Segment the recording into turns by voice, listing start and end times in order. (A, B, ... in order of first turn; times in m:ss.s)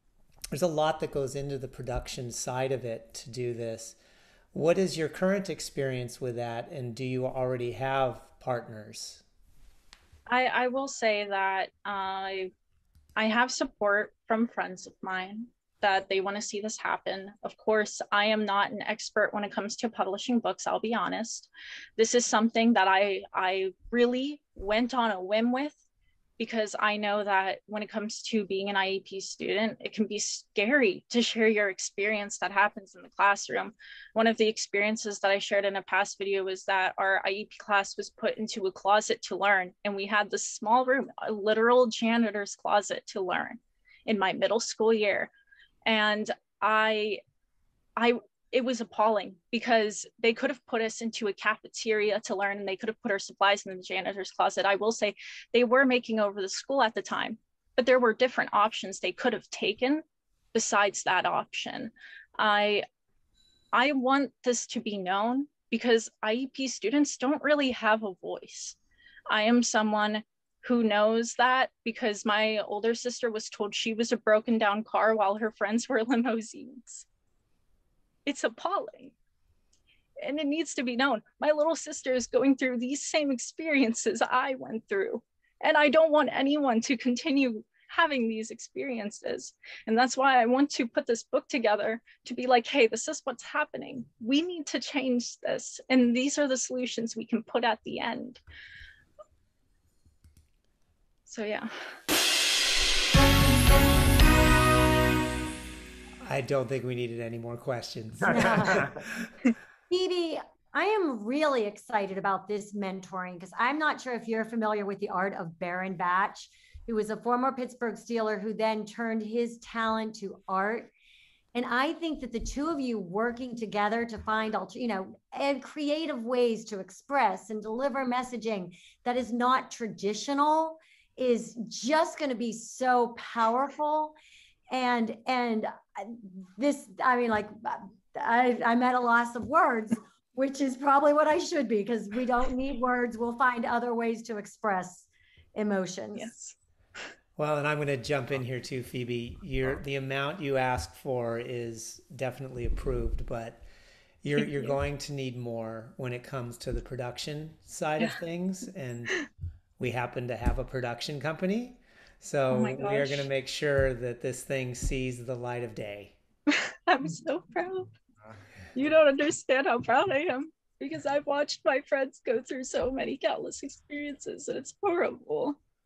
0:00.5-0:04.0 A
0:04.5-0:09.2 A
0:10.3-0:12.5 B
0:13.2-0:25.8 B
0:26.4-0:45.3 B
0:45.9-0:47.2 B
0:48.0-1:00.0 B
1:00.5-1:02.8 B
1:03.7-1:08.8 B
1:09.3-1:17.1 B
1:18.3-1:19.1 B
1:20.2-1:38.4 B
1:41.3-1:41.7 B
1:46.2-1:49.3 A
1:48.3-1:48.9 C
1:49.9-2:00.9 C
2:01.6-2:14.2 C
2:14.7-2:26.3 C
2:26.2-2:26.6 B
2:27.4-2:33.6 A
2:34.2-2:39.2 A
2:34.4-2:34.8 B
2:39.8-2:46.2 A
2:42.5-2:43.3 B
2:46.5-2:47.9 B
2:48.7-2:55.6 B